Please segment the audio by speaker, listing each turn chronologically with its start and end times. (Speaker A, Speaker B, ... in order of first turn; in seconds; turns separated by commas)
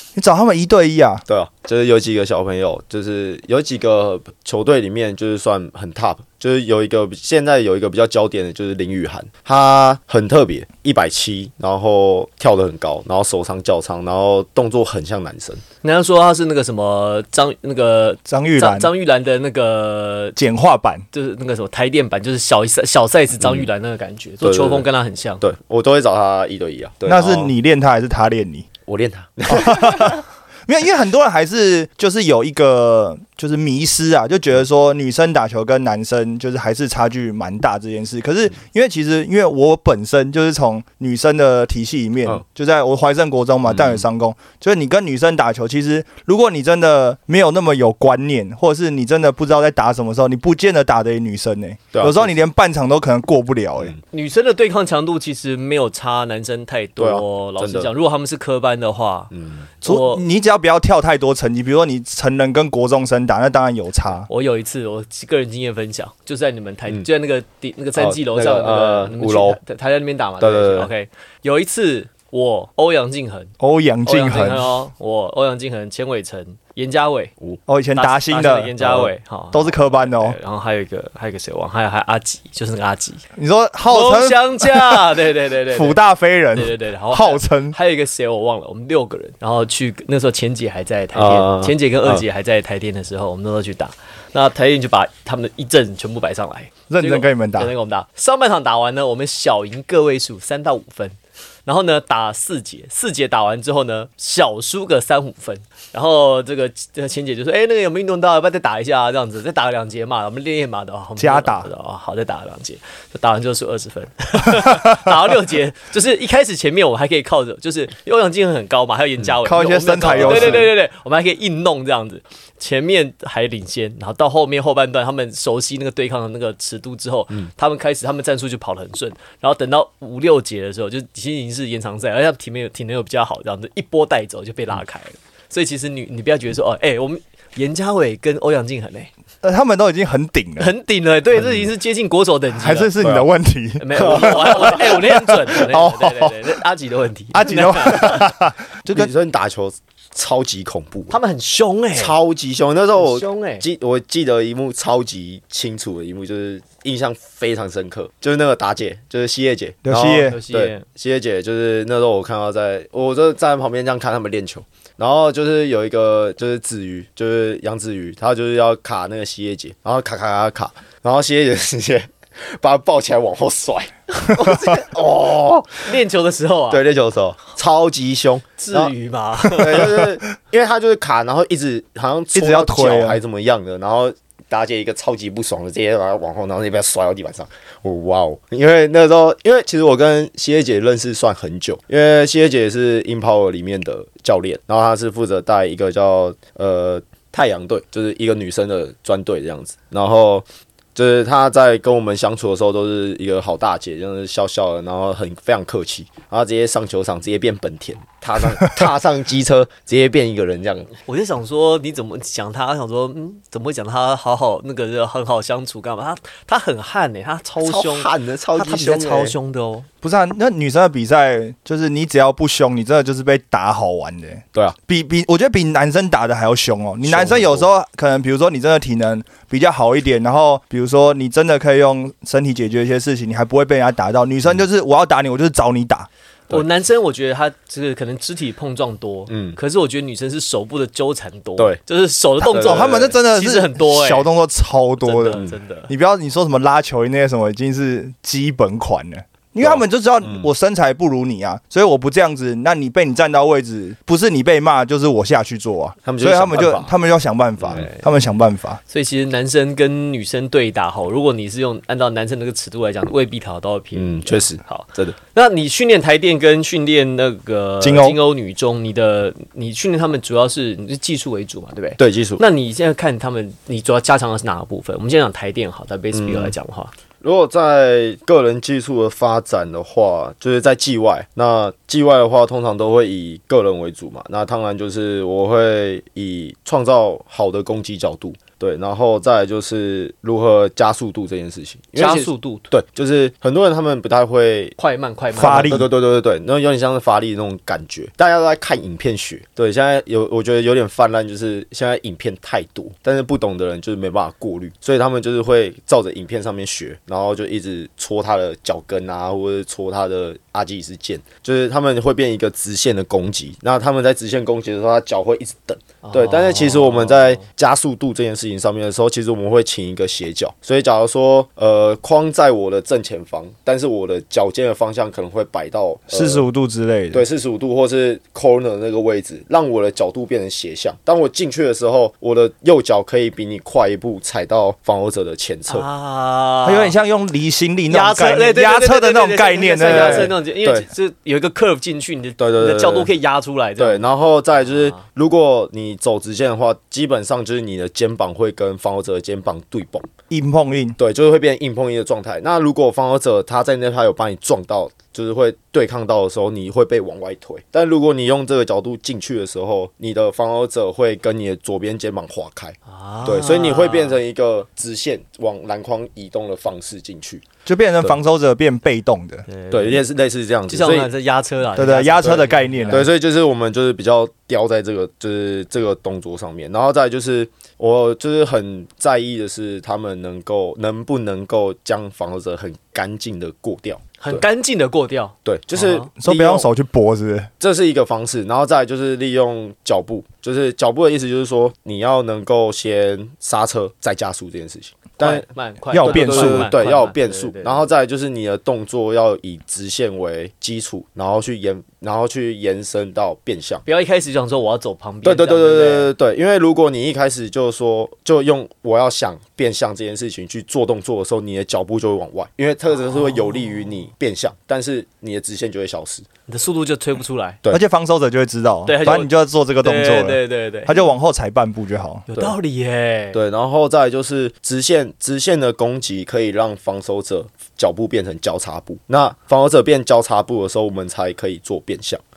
Speaker A: 0.1-1.2, Speaker B: 1.3-15.6, Speaker C: 15.8-20.4, Speaker A: 18.3-18.9, Speaker A: 20.4-21.0, Speaker C: 21.1-25.4, Speaker B: 23.4-23.7, Speaker B: 24.4-24.8, Speaker B: 25.4-27.5, Speaker A: 27.1-28.7, Speaker B: 28.9-30.2, Speaker A: 29.5-53.9, Speaker B: 43.7-44.0, Speaker B: 51.9-52.4, Speaker C: 54.1-60.2, Speaker B: 57.0-57.9, Speaker B: 59.3-59.7, Speaker A: 59.8-64.3, Speaker C: 64.3-73.5, Speaker B: 68.0-69.6, Speaker B: 70.4-70.9, Speaker A: 73.6-74.7, Speaker C: 74.0-77.3, Speaker A: 77.7-78.8, Speaker C: 78.0-83.2, Speaker B: 78.8-79.1, Speaker A: 79.5-80.4, Speaker A: 83.3-87.8, Speaker C: 83.9-86.0, Speaker C: 86.5-139.1, Speaker B: 91.1-92.2, Speaker A: 96.9-97.7, Speaker A: 111.2-111.7, Speaker A: 114.5-115.2, Speaker A: 119.4-120.7, Speaker B: 120.1-120.7, Speaker A: 139.4-140.7, Speaker C: 140.6-142.9, Speaker B: 141.4-141.7, Speaker A: 142.6-146.5, Speaker B: 143.0-143.3, Speaker C: 143.8-148.3, Speaker B: 143.9-144.7, Speaker A: 147.3-149.1, Speaker B: 148.9-151.2, Speaker C: 151.1-152.2, Speaker B: 151.9-175.9, Speaker C: 153.0-153.7, Speaker A: 159.8-160.4, Speaker C: 160.2-160.8, Speaker C: 174.4-174.9, Speaker C: 175.7-176.8, Speaker B: 176.7-178.9, Speaker C: 178.6-179.9, Speaker B: 179.5-200.4, Speaker A: 182.3-183.2, Speaker B: 200.9-210.9, Speaker C: 211.0-219.9, Speaker B: 217.6-219.3, Speaker A: 220.0-236.1, Speaker B: 227.0-227.7, Speaker C: 236.5-244.3, Speaker B: 239.3-239.6, Speaker A: 242.4-258.8, Speaker B: 242.5-243.1, Speaker C: 245.0-245.9, Speaker B: 249.6-250.5, Speaker B: 256.0-256.9, Speaker B: 257.6-257.8, Speaker C: 257.7-258.1, Speaker C: 258.9-276.9, Speaker B: 263.9-265.2, Speaker A: 267.8-268.2, Speaker B: 272.0-272.4, Speaker B: 276.1-276.5, Speaker B: 277.2-294.8, Speaker C: 291.9-292.7, Speaker C: 294.8-295.8, Speaker A: 295.3-295.9, Speaker B: 295.4-326.4, Speaker C: 316.0-317.4, Speaker A: 326.1-327.2, Speaker B: 327.1-335.8, Speaker C: 335.7-336.9, Speaker A: 336.6-340.4, Speaker C: 337.9-344.0, Speaker B: 339.8-340.9, Speaker B: 342.4-343.1, Speaker B: 343.8-350.1, Speaker C: 344.7-345.0, Speaker A: 350.3-350.9, Speaker B: 351.0-367.4, Speaker C: 362.9-364.2, Speaker A: 367.6-369.4, Speaker C: 369.5-370.0, Speaker B: 369.7-371.1, Speaker C: 370.7-373.1, Speaker A: 371.7-373.1, Speaker B: 372.9-384.4, Speaker C: 384.2-386.1, Speaker B: 385.4-386.7, Speaker A: 386.2-387.5, Speaker B: 387.6-395.4, Speaker C: 395.2-397.8, Speaker A: 395.9-396.7, Speaker B: 396.0-403.8, Speaker C: 403.8-406.1, Speaker B: 405.2-416.2, Speaker C: 416.5-417.6, Speaker A: 417.7-422.2, Speaker C: 418.9-419.3, Speaker C: 419.8-420.9, Speaker C: 422.3-423.4, Speaker B: 423.3-432.2